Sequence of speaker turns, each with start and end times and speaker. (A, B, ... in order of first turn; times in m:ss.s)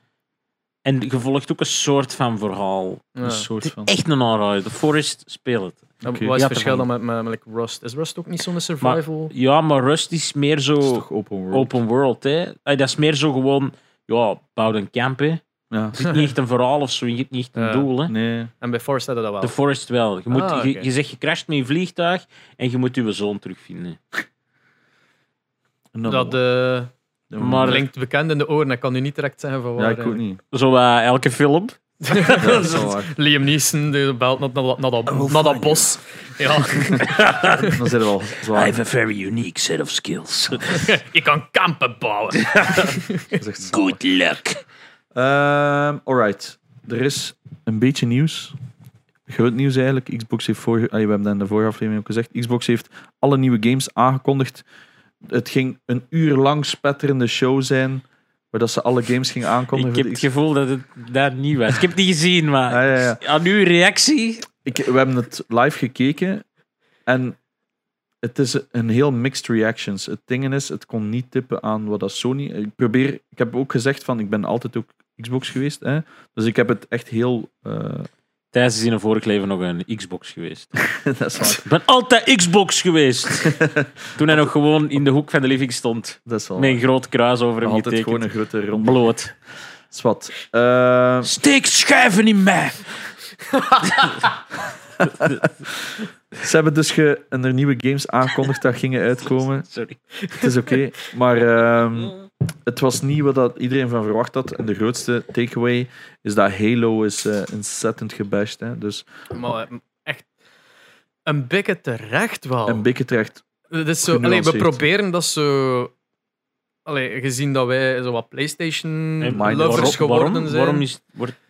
0:00.8-0:03.1 A
0:03.2-0:03.5 B
0:03.2-0:03.9 C
0:03.6-0:06.9 A
0:06.0-0:06.3 C
0:06.0-0:09.3 B
0:08.8-0:18.1 A
0:10.8-0:11.7 C
0:15.7-0:16.0 C
0:16.0-0:16.3 B
0:17.6-0:17.9 B
0:18.1-0:18.5 C
0:18.6-0:19.6 B
0:19.4-0:24.0 A
0:20.3-0:20.9 B
0:25.9-0:26.4 C
0:26.1-0:26.9 B
0:27.3-0:27.8 C
0:27.4-0:27.8 A
0:27.6-0:30.2 B
0:29.8-0:30.4 C
0:30.5-0:32.8 A
0:32.0-0:37.8 B
0:32.4-0:33.1 C
0:35.1-0:35.8 C
0:36.9-0:37.8 A
0:37.0-0:38.8 C
0:38.5-0:40.9 A
0:40.7-0:43.4 B
0:42.4-0:42.9 A
0:43.3-0:44.0 C
0:43.7-0:44.6 A
0:45.1-0:48.5 C
0:49.3-0:54.6 C
0:55.2-1:00.2 C
0:59.7-1:04.5 A
1:02.7-1:03.2 C
1:04.6-1:06.4 C
1:07.1-1:07.4 C
1:08.2-1:18.1 C
1:18.5-1:20.7 A
1:20.8-1:21.6 C
1:21.4-1:23.6 A
1:23.4-1:24.5 C
1:24.2-1:29.3 A
1:26.3-1:26.8 C
1:27.6-1:29.1 C
1:29.9-1:31.3 C
1:31.2-1:32.9 A
1:33.6-1:34.3 B
1:33.8-1:34.2 A
1:35.0-1:35.5 C
1:35.0-1:35.4 A
1:36.3-1:39.7 C
1:39.6-1:40.0 A
1:40.3-1:40.8 B
1:40.4-1:49.1 C
1:42.0-1:42.2 A
1:49.3-1:50.3 B
1:51.3-1:52.9 B
1:52.7-1:53.4 C
1:53.7-1:55.9 B
1:54.0-1:54.8 C
1:56.9-2:00.9 B
1:59.2-2:01.4 A
1:59.3-2:00.0 C